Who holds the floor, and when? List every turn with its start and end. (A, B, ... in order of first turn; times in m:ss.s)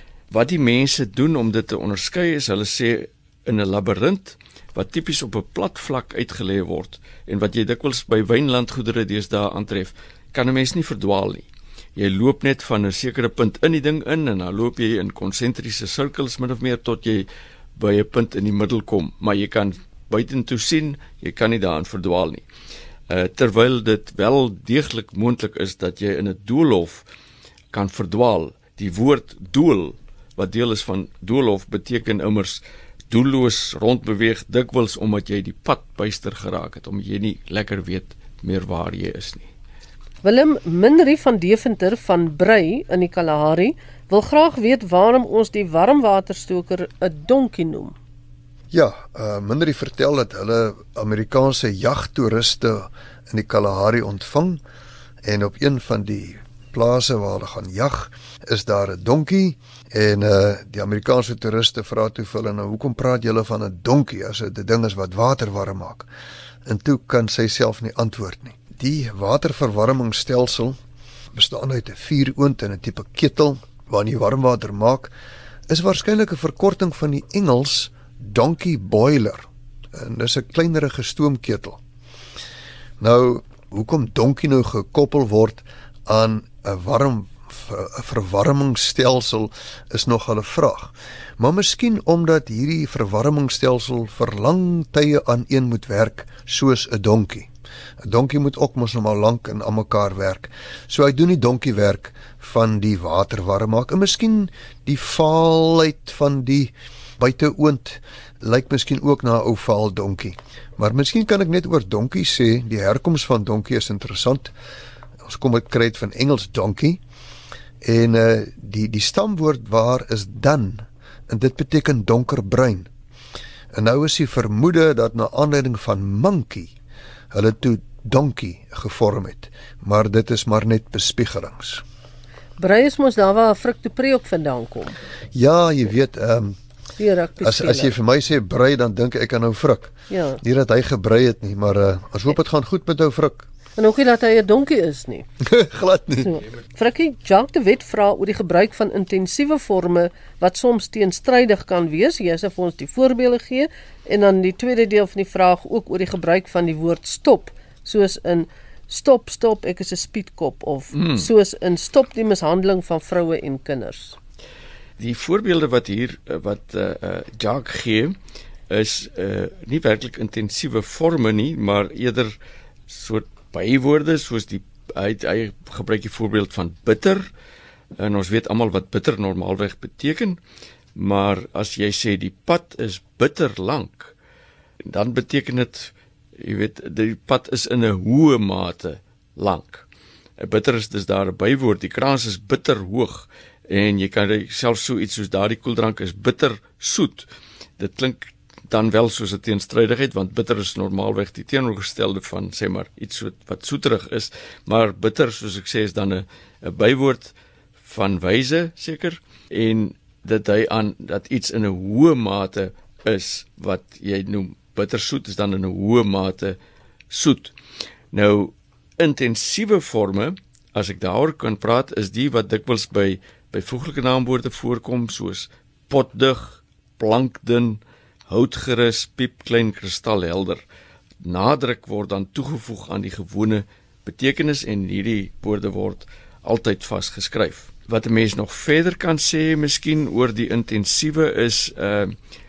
0:00.3-0:22.4 A
0:23.1-0:27.1 A
0:27.7-0:39.5 A
0:40.2-0:48.0 B
0:48.7-0:54.6 C
0:55.2-1:06.1 C
1:06.6-1:10.8 C
1:11.3-1:15.1 C
1:15.7-1:21.8 C
1:23.0-1:37.5 C
1:38.0-1:54.5 C
1:55.2-1:57.0 C
1:57.8-2:02.9 C
2:03.7-2:06.7 C
2:07.3-2:11.8 C
2:12.6-2:15.0 B
2:15.3-2:16.6 C
2:17.0-2:17.9 B
2:17.4-2:23.5 C
2:20.1-2:20.4 B
2:23.8-2:25.2 B
2:25.4-2:26.3 C
2:26.2-2:44.2 B
2:45.0-2:48.2 A
2:48.7-2:52.4 A
2:52.9-2:57.3 A
2:58.0-3:00.4 A
3:01.0-3:04.1 A
3:04.9-3:09.9 A
3:10.4-3:17.3 A
3:17.8-3:36.6 A
3:37.1-3:37.6 A
3:38.1-3:50.6 A
3:51.2-4:02.1 A